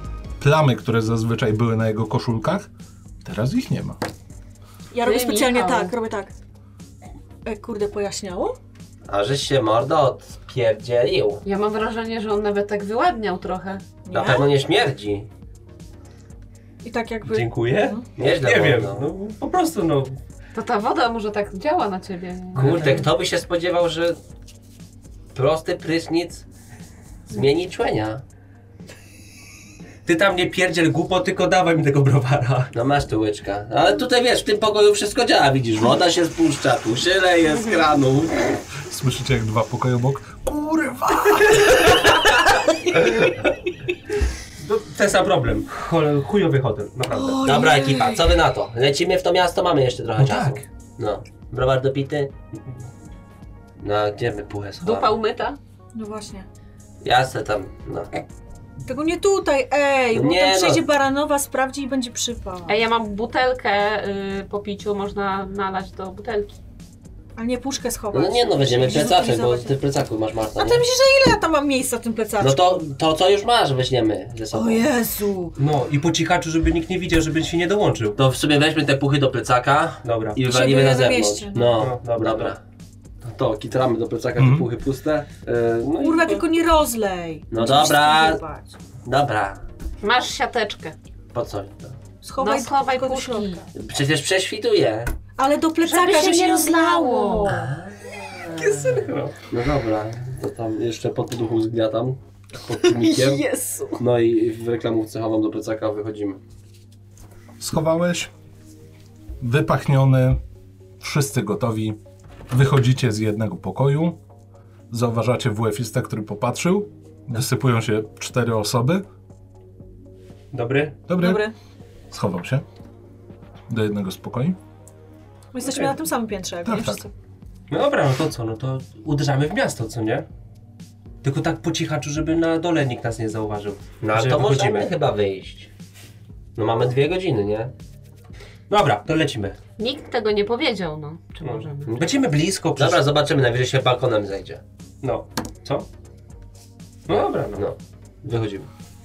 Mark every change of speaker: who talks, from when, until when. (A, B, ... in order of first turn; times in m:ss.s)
0:00.4-0:02.7 A
0:03.2-0:04.0 A
0:04.9-0:06.3 B
0:05.0-0:06.0 C
0:07.4-0:08.6 B
0:09.1-0:11.4 D
0:11.4-0:13.8 C
0:14.1-0:14.5 B
0:14.1-0:15.3 D
0:16.8-0:18.0 B
0:17.3-0:20.2 E
0:18.2-0:19.1 D
0:20.5-0:23.1 C
0:22.6-0:24.2 D
0:22.6-0:23.0 E
0:25.4-0:26.4 D
0:27.3-0:28.2 D
0:30.1-0:32.7 E
0:32.7-0:38.6 D
0:38.8-0:42.1 A
0:43.0-0:43.3 E
0:44.6-0:47.6 E
0:47.1-0:48.3 B
0:47.4-0:52.3 D
0:50.2-0:50.6 E
0:53.8-0:55.2 D
0:54.8-0:55.6 C
0:55.9-0:56.5 B
0:57.0-0:58.2 D
0:58.9-1:02.8 B
1:00.1-1:00.8 D
1:02.7-1:06.5 C
1:07.4-1:09.8 B
1:08.1-1:10.8 D
1:10.6-1:12.6 B
1:12.4-1:14.9 D
1:14.5-1:15.6 B
1:15.6-1:18.2 E
1:18.2-1:22.6 D
1:20.0-1:20.4 E
1:20.4-1:21.8 B
1:21.8-1:22.6 E
1:23.2-1:26.4 D
1:24.4-1:24.7 A
1:26.0-1:26.4 E
1:26.0-1:28.8 B
1:27.5-1:28.4 D
1:29.0-1:29.6 D
1:30.0-1:31.0 C
1:31.3-1:32.0 D
1:32.2-1:33.7 B
1:32.4-1:33.7 C
1:33.7-1:35.1 D
1:35.4-1:37.7 B
1:35.8-1:37.6 C
1:37.5-1:39.0 D
1:38.5-1:39.3 E
1:39.5-1:43.4 D
1:42.8-1:44.0 B
1:44.0-1:46.4 D
1:47.6-1:48.3 A
1:49.4-1:50.4 A
1:51.0-1:52.0 A
1:52.5-1:54.2 A
1:54.9-1:59.0 A
2:00.5-2:01.0 E
2:01.1-2:01.5 A
2:01.2-2:01.6 B
2:02.1-2:02.6 A
2:03.7-2:04.6 A
2:05.5-2:07.1 B
2:05.6-2:05.9 E
2:06.6-2:07.0 A
2:07.7-2:10.2 E
2:11.2-2:14.9 E
2:14.0-2:15.7 D
2:16.6-2:17.7 D
2:18.7-2:19.6 E
2:19.8-2:22.0 C
2:21.4-2:23.0 E
2:22.8-2:24.6 D
2:25.0-2:25.9 E
2:27.1-2:27.7 E
2:27.5-2:28.7 D